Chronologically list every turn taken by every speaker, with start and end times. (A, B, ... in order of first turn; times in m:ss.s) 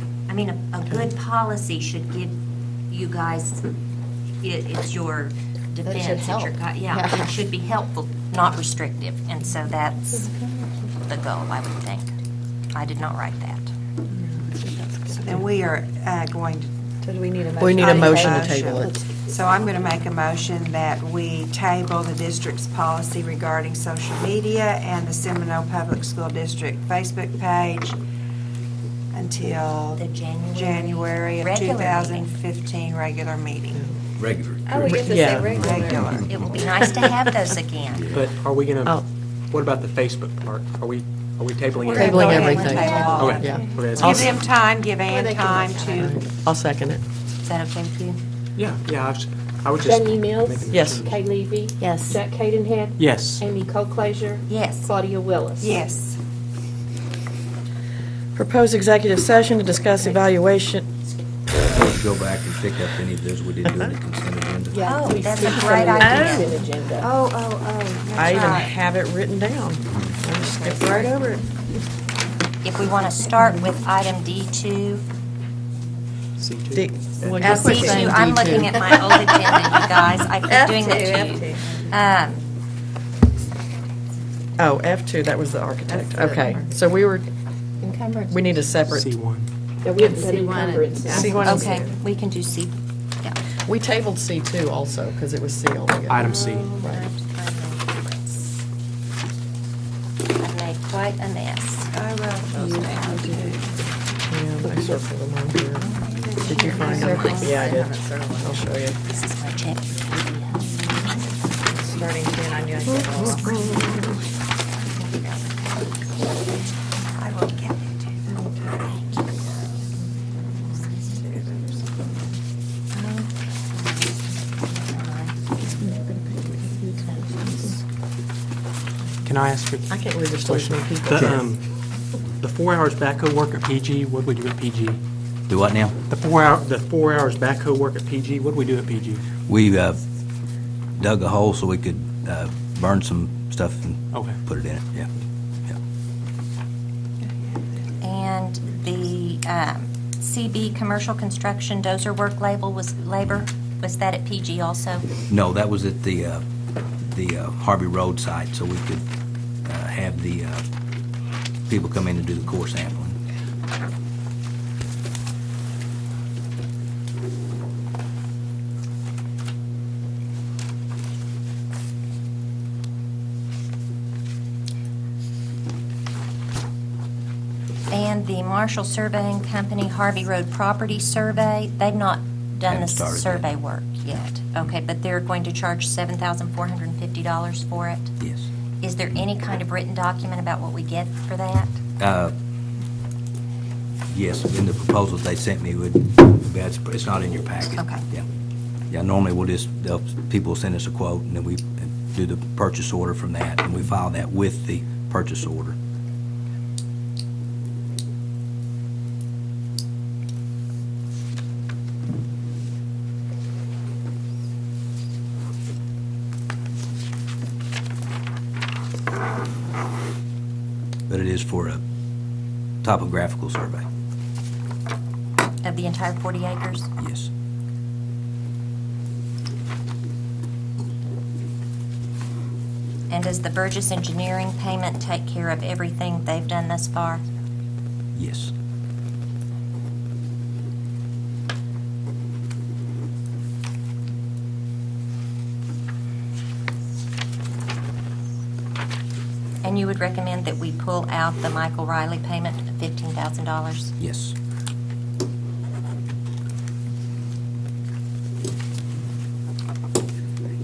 0:00.3-0:03.6 A
0:04.4-0:10.3 A
0:05.8-0:07.3 B
0:10.8-0:12.1 A
0:12.7-0:13.7 A
0:14.1-0:15.4 B
0:15.1-0:16.7 C
0:17.0-0:19.2 B
0:17.6-0:19.0 D
0:17.8-0:28.0 C
0:29.1-0:30.0 C
0:30.0-0:32.3 A
0:30.5-0:33.8 C
0:34.2-0:34.8 E
0:34.7-0:36.0 B
0:34.9-0:36.0 D
0:35.2-0:36.7 C
0:36.2-0:38.1 A
0:36.8-0:37.3 D
0:37.9-0:38.3 E
0:38.1-0:44.4 F
0:41.8-0:46.1 C
0:41.9-0:44.3 D
0:42.0-0:43.2 A
0:42.4-0:43.9 B
0:45.1-0:46.0 B
0:45.7-0:46.0 A
0:46.0-0:47.0 D
0:47.4-0:48.2 A
0:48.6-0:51.2 F
0:49.8-0:55.8 G
0:50.7-0:51.1 D
0:51.8-0:52.2 B
0:53.0-0:53.4 F
0:54.5-0:54.9 A
0:55.6-0:56.2 C
0:58.3-1:00.9 D
1:01.6-1:04.9 E
1:03.7-1:04.0 D
1:04.7-1:07.1 G
1:04.8-1:06.6 A
1:06.0-1:06.5 D
1:07.0-1:08.7 C
1:08.1-1:11.4 D
1:09.9-1:10.2 E
1:10.4-1:11.1 C
1:12.6-1:15.0 A
1:16.4-1:17.4 F
1:16.7-1:19.3 D
1:17.4-1:18.6 B
1:17.4-1:22.4 A
1:20.5-1:22.0 B
1:24.6-1:27.3 D
1:25.9-1:26.7 B
1:27.8-1:28.6 B
1:28.3-1:29.1 D
1:28.9-1:29.5 F
1:29.8-1:31.7 G
1:29.9-1:32.0 B
1:31.1-1:31.9 D
1:31.4-1:33.4 A
1:33.6-1:37.0 D
1:36.1-1:36.7 F
1:36.2-1:36.9 C
1:36.8-1:38.6 A
1:40.4-1:41.9 A
1:41.9-1:43.7 C
1:42.7-1:43.4 G
1:43.0-1:43.6 B
1:44.3-1:49.0 D
1:46.0-1:48.8 B
1:46.6-1:47.7 A
1:49.0-1:49.9 A
1:51.7-1:53.9 D
1:53.0-1:53.9 B
1:55.0-1:55.7 A
1:57.2-1:58.4 C
2:01.1-2:01.6 B
2:02.9-2:05.4 A
2:06.8-2:07.7 B
2:07.0-2:07.5 A
2:09.2-2:11.6 F
2:09.9-2:11.5 D
2:12.4-2:15.0 F
2:15.5-2:16.0 E
2:16.1-2:19.2 F
2:19.5-2:20.0 E
2:21.0-2:25.1 E
2:24.1-2:24.4 F
2:27.2-2:27.8 C
2:28.0-2:35.1 A
2:35.3-2:36.4 E
2:37.0-2:39.0 E
2:39.6-2:40.6 E
2:41.7-2:43.2 E
2:57.9-3:08.1 A
3:02.7-3:03.5 E
3:08.2-3:08.5 E
3:08.8-3:11.8 A
3:12.0-3:12.3 E
3:14.1-3:18.2 E
3:17.8-3:18.0 A
3:18.9-3:25.8 E
3:41.1-3:41.8 E
3:42.8-3:43.8 E
3:45.6-3:46.9 A
3:47.0-3:47.3 E
3:53.1-3:57.2 A
3:58.2-3:58.5 E
4:09.6-4:13.9 A
4:14.0-4:14.4 E